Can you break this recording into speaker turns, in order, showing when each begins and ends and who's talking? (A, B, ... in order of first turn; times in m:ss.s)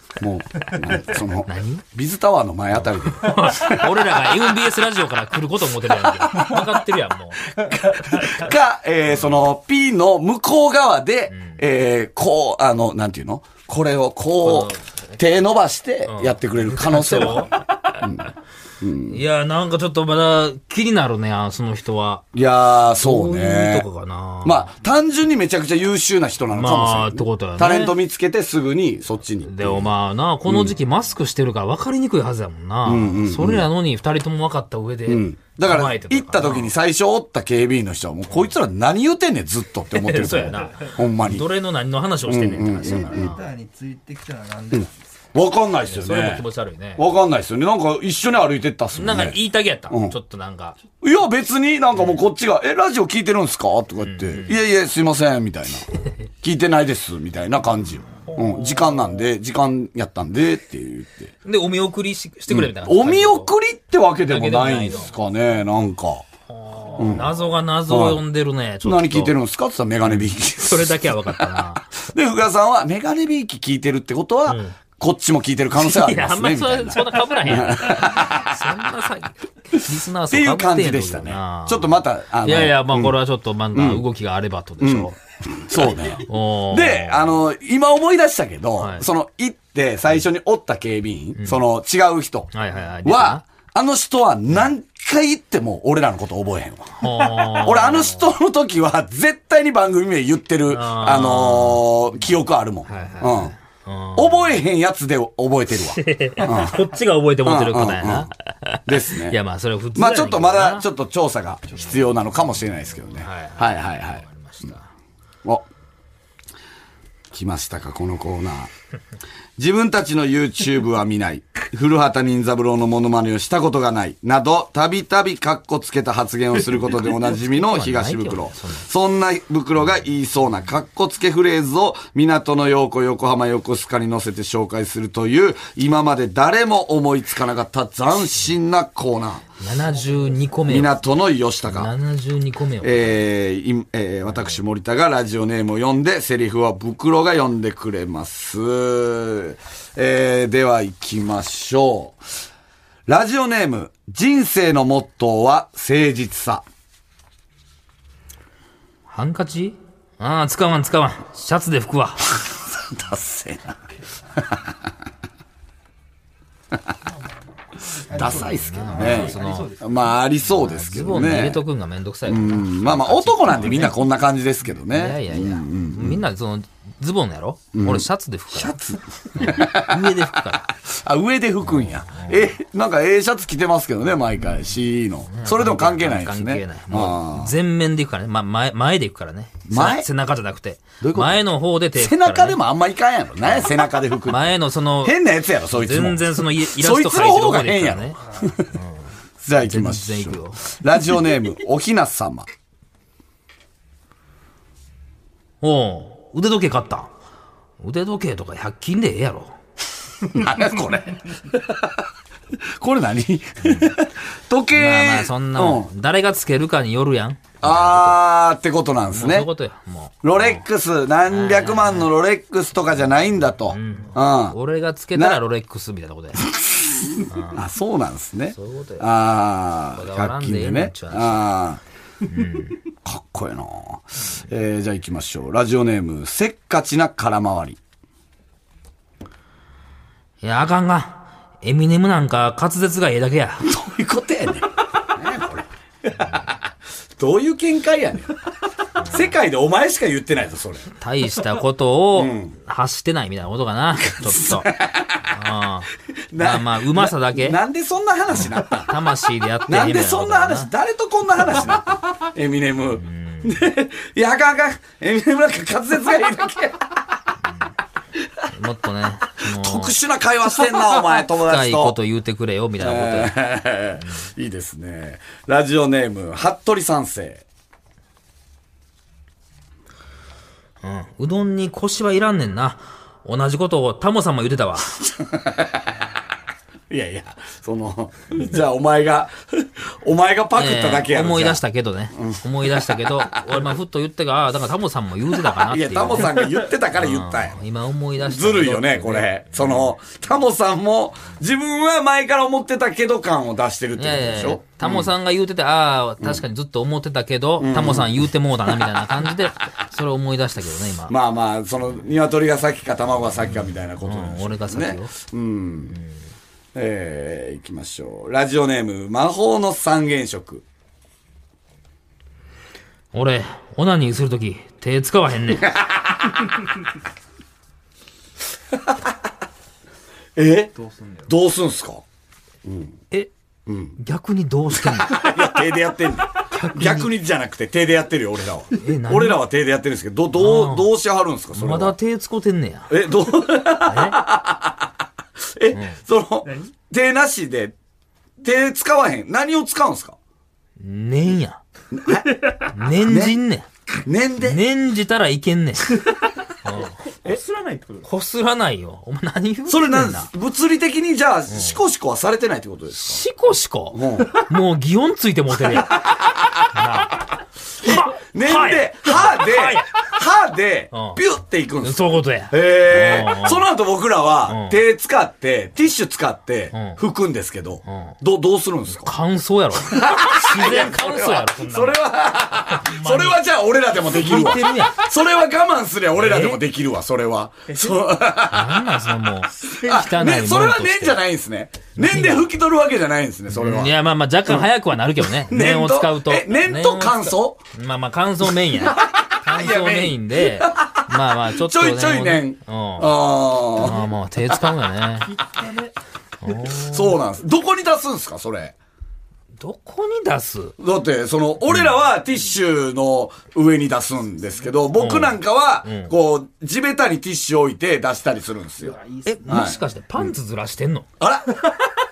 0:00.2-0:04.4 A
0:01.4-0:01.8 B
0:03.1-0:07.4 B
0:05.8-0:06.8 A
0:07.4-0:18.3 A
0:11.3-0:11.6 B
0:14.4-0:14.9 B
0:16.1-0:18.0 B
0:18.8-0:19.2 A
0:19.1-0:22.2 B
0:22.3-0:23.9 A
0:23.0-0:24.7 B
0:24.4-0:29.9 A
0:26.5-0:28.0 B
0:29.4-0:36.7 B
0:30.5-0:30.7 A
0:32.8-0:33.7 A
0:35.1-0:41.5 A
0:39.9-0:43.4 B
0:42.2-0:43.4 A
0:42.8-0:45.2 C
0:45.3-0:46.4 A
0:45.8-0:47.0 B
0:47.0-0:49.4 A
0:49.0-0:50.8 B
0:49.9-0:50.2 A
0:51.0-0:55.9 A
0:54.0-0:54.6 B
0:56.4-1:01.3 A
0:58.3-0:59.0 B
1:01.4-1:03.5 B
1:02.5-1:06.2 A
1:04.3-1:05.1 B
1:06.5-1:09.4 B
1:07.0-1:07.3 A
1:07.9-1:08.2 A
1:08.8-1:18.6 A
1:10.0-1:11.8 B
1:14.5-1:14.8 B
1:15.8-1:25.2 B
1:20.3-1:23.2 A
1:23.7-1:24.0 A
1:24.8-1:32.5 A
1:26.2-1:27.4 B
1:28.8-1:29.1 B
1:31.4-1:31.6 B
1:32.5-1:33.4 B
1:33.0-1:43.6 A
1:37.0-1:38.2 B
1:40.7-1:41.9 B
1:42.9-1:44.6 B
1:44.2-1:46.8 A
1:45.9-1:50.9 B
1:47.4-1:48.3 A
1:48.9-1:49.4 A
1:49.9-1:54.2 A
1:53.2-1:54.9 B
1:57.3-1:58.7 A
1:59.6-2:19.4 A
2:07.5-2:08.9 B
2:19.6-2:21.0 B
2:20.7-2:21.9 A
2:21.7-2:23.3 B
2:22.8-2:32.2 A
2:33.1-2:36.6 A
2:39.1-2:42.4 B
2:42.3-2:43.8 A
2:44.4-2:44.7 A
2:48.0-2:50.1 C
2:48.1-2:51.6 A
2:48.1-2:49.7 B
2:50.5-2:54.0 B
2:52.3-2:56.2 A
2:54.9-2:58.8 B
2:57.7-3:07.5 A
2:59.3-3:00.7 B
3:01.7-3:02.4 B
3:05.3-3:12.6 B
3:09.7-3:10.1 A
3:11.0-3:18.8 A
3:13.4-3:15.2 B
3:15.7-3:18.2 B
3:19.4-3:22.5 A
3:19.6-3:20.7 B
3:25.6-3:27.1 B
3:27.8-3:29.6 B
3:30.2-3:32.0 A
3:32.8-3:35.9 A
3:33.6-3:34.0 B
3:34.7-3:38.2 B
3:37.6-3:39.5 A
3:39.1-3:40.6 B
3:40.2-3:44.6 A
3:41.3-3:42.1 B
3:43.7-3:46.5 B
3:45.1-3:45.4 A
3:46.4-3:51.8 A
3:47.3-3:47.6 B
3:48.5-3:49.1 B
3:49.9-3:51.5 B
3:52.2-3:52.8 B
3:53.0-3:57.8 A
4:00.4-4:03.7 B
4:03.6-4:06.6 A
4:07.2-4:08.4 A
4:09.0-4:09.3 B
4:09.0-4:10.9 A
4:11.0-4:14.7 B
4:12.2-4:12.6 A
4:14.0-4:15.3 A
4:15.3-4:17.6 B
4:16.3-4:18.9 A
4:18.3-4:20.7 B
4:19.7-4:27.0 A
4:21.4-4:21.8 B
4:23.0-4:23.6 B
4:28.2-4:28.5 A
4:28.5-4:30.0 B
4:29.4-4:32.0 A
4:31.4-4:33.3 B
4:32.8-4:37.4 A
4:40.8-4:44.9 B
4:45.0-4:46.0 A
4:46.9-4:51.6 A
4:50.6-4:59.9 B
4:52.2-4:53.6 A
4:55.4-4:57.6 A
4:58.2-5:05.1 A
5:04.0-5:11.2 B
5:07.6-5:08.9 A
5:11.1-5:16.0 A
5:14.1-5:15.1 B
5:16.8-5:20.6 A
5:23.1-5:25.7 B
5:25.6-5:26.6 A
5:28.7-5:29.1 A
5:30.4-5:30.7 A
5:30.8-5:31.3 C
5:31.3-5:32.0 A
5:32.6-5:33.0 A
5:33.7-5:34.0 A
5:34.0-5:35.4 B
5:34.7-5:42.0 A
5:36.5-5:37.1 B
5:38.8-5:39.4 B
5:40.4-5:40.9 B
5:41.5-5:42.9 B
5:42.9-5:44.9 A
5:43.8-5:44.2 B
5:45.5-5:47.8 A
5:46.4-5:46.7 C
5:48.4-5:50.2 A
5:50.8-5:51.6 B
5:51.9-5:53.4 A
5:52.7-5:53.7 B
5:54.0-5:54.6 A
5:54.4-5:56.0 B
5:56.6-5:57.0 B
5:57.2-5:58.1 C
5:58.0-6:00.3 B
5:59.7-6:03.2 A
6:02.9-6:06.0 B
6:03.9-6:04.4 A
6:05.6-6:06.9 A
6:06.7-6:10.1 B
6:07.8-6:19.2 A
6:10.9-6:11.2 B
6:11.8-6:13.7 B
6:14.5-6:14.8 B
6:16.7-6:17.0 B
6:17.9-6:18.1 B
6:19.0-6:22.0 B
6:19.8-6:28.9 A
6:22.7-6:23.4 B
6:24.1-6:25.0 B
6:26.2-6:26.6 B
6:27.7-6:28.0 C
6:28.5-6:31.2 B
6:29.6-6:34.7 A
6:32.0-6:32.5 B
6:33.5-6:43.1 B
6:35.2-6:37.6 A
6:38.7-6:44.6 A
6:43.8-6:45.3 B
6:45.2-6:45.9 C
6:46.4-6:47.2 B
6:46.6-6:48.8 A
6:49.6-6:50.8 B
6:50.8-7:00.3 A
6:51.7-6:51.9 B
6:55.0-6:56.1 B
6:58.8-6:59.6 C
6:59.2-7:01.1 B
7:01.2-7:01.9 A